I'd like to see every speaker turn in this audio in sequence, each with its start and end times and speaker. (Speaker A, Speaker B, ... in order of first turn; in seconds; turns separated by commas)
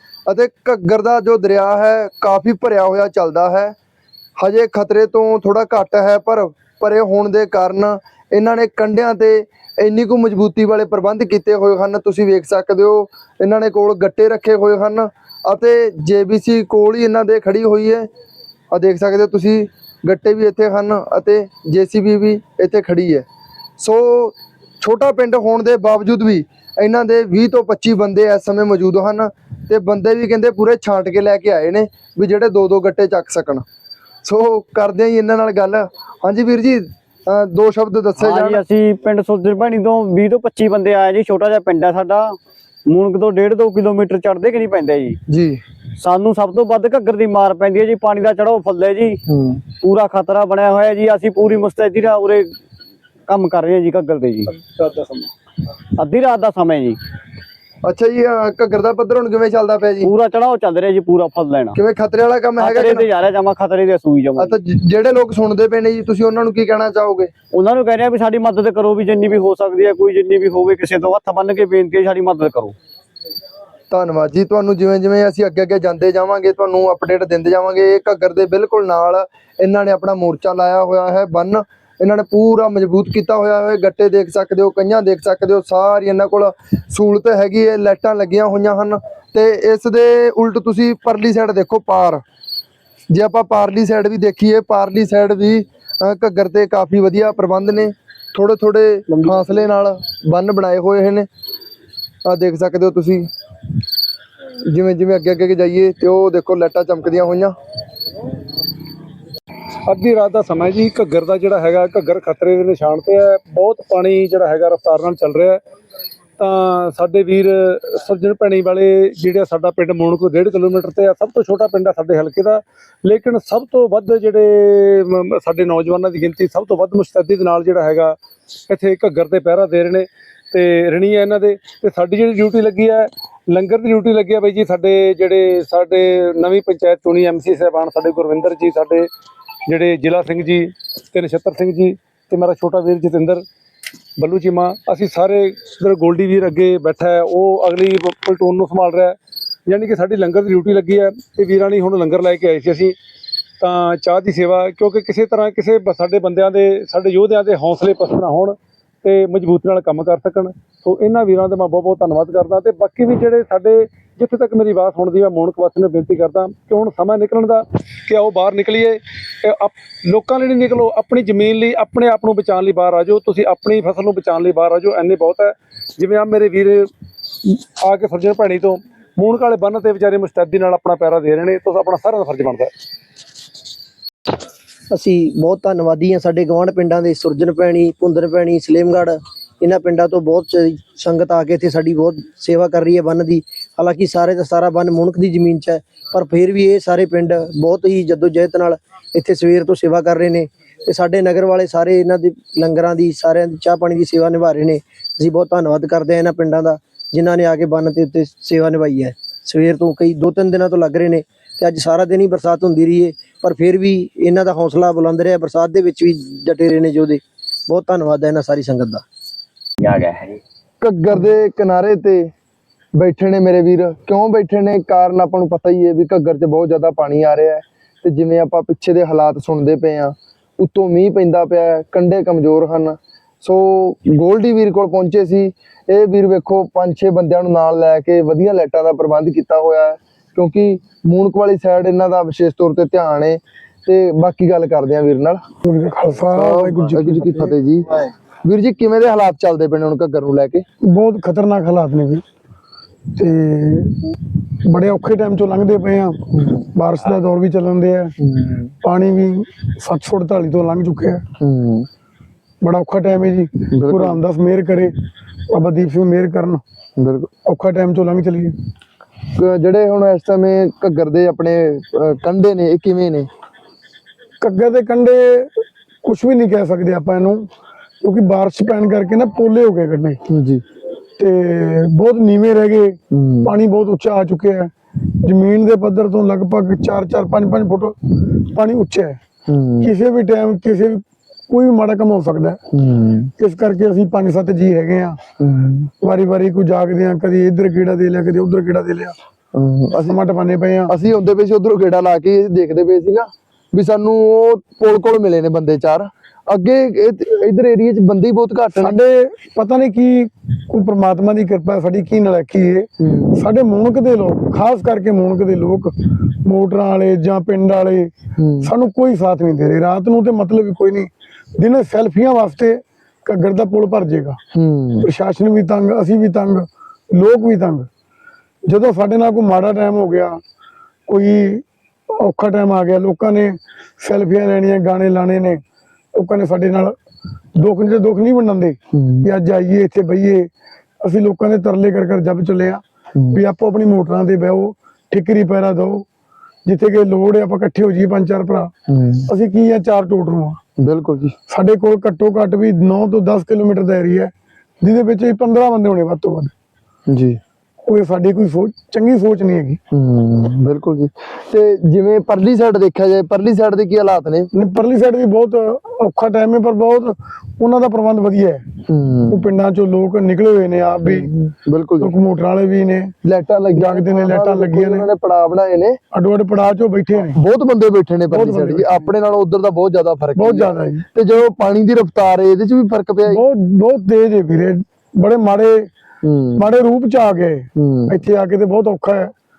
Speaker A: 0.3-3.7, Speaker A: 4.4-18.1, Speaker A: 18.7-23.2, Speaker A: 23.8-33.6, Speaker A: 34.2-38.6, Speaker B: 38.2-45.2, Speaker A: 45.3-45.6, Speaker B: 46.0-49.2, Speaker A: 49.3-49.6, Speaker B: 49.8-52.5, Speaker B: 53.3-54.5, Speaker C: 54.6-55.3, Speaker B: 56.0-57.0, Speaker A: 57.8-60.1, Speaker B: 60.0-61.8, Speaker A: 61.8-63.1, Speaker B: 62.6-64.5, Speaker A: 64.4-67.3, Speaker B: 67.5-72.7, Speaker A: 73.9-92.2, Speaker A: 93.1-101.3, Speaker A: 102.2-103.3, Speaker A: 104.7-107.5, Speaker C: 109.9-115.6, Speaker C: 116.4-128.2, Speaker C: 128.7-139.1, Speaker C: 139.7-143.4, Speaker C: 144.2-152.9, Speaker C: 153.6-176.9, Speaker C: 177.4-182.7, Speaker D: 184.9-219.0, Speaker A: 220.8-222.3, Speaker A: 223.0-245.4, Speaker E: 245.6-247.5, Speaker A: 246.3-250.6, Speaker E: 250.8-252.2, Speaker E: 253.1-258.1, Speaker A: 256.4-256.6, Speaker A: 258.2-258.7, Speaker E: 258.8-261.2, Speaker A: 261.4-261.9, Speaker E: 262.6-264.9, Speaker A: 263.7-264.2, Speaker E: 265.5-266.6, Speaker A: 267.0-267.3, Speaker E: 267.4-268.5, Speaker A: 269.3-273.3, Speaker E: 274.4-275.5, Speaker E: 276.0-277.5, Speaker E: 278.0-280.2, Speaker A: 280.3-280.6, Speaker E: 281.2-284.7, Speaker A: 283.1-283.5, Speaker E: 285.2-289.2, Speaker A: 289.5-289.9, Speaker E: 289.8-292.6, Speaker A: 292.7-293.3, Speaker E: 293.4-295.2, Speaker A: 295.4-295.9, Speaker E: 296.0-299.1, Speaker A: 299.5-300.2, Speaker E: 300.1-300.9, Speaker A: 300.9-308.9, Speaker E: 308.8-324.4, Speaker A: 313.0-313.4, Speaker A: 318.4-318.7, Speaker A: 324.5-325.1, Speaker E: 325.0-327.9, Speaker E: 328.6-330.4, Speaker E: 331.1-331.6, Speaker E: 332.2-335.6, Speaker E: 336.1-336.9, Speaker E: 337.6-340.5, Speaker A: 338.9-339.3, Speaker E: 341.0-342.8, Speaker E: 343.3-346.0, Speaker E: 346.6-348.7, Speaker A: 348.9-349.3, Speaker E: 349.3-350.6, Speaker A: 350.8-351.3, Speaker E: 351.5-354.3, Speaker E: 354.8-356.5, Speaker A: 357.1-357.4, Speaker E: 357.9-359.8, Speaker A: 359.9-364.5, Speaker E: 364.5-368.6, Speaker A: 368.9-369.4, Speaker E: 369.3-371.3, Speaker A: 371.1-372.1, Speaker E: 372.0-373.1, Speaker A: 373.2-376.0, Speaker E: 373.8-375.1, Speaker E: 376.1-377.4, Speaker A: 377.2-383.4, Speaker E: 378.3-379.1, Speaker E: 380.4-381.0, Speaker E: 383.3-385.9, Speaker A: 386.2-386.6, Speaker E: 386.6-389.3, Speaker A: 387.8-388.2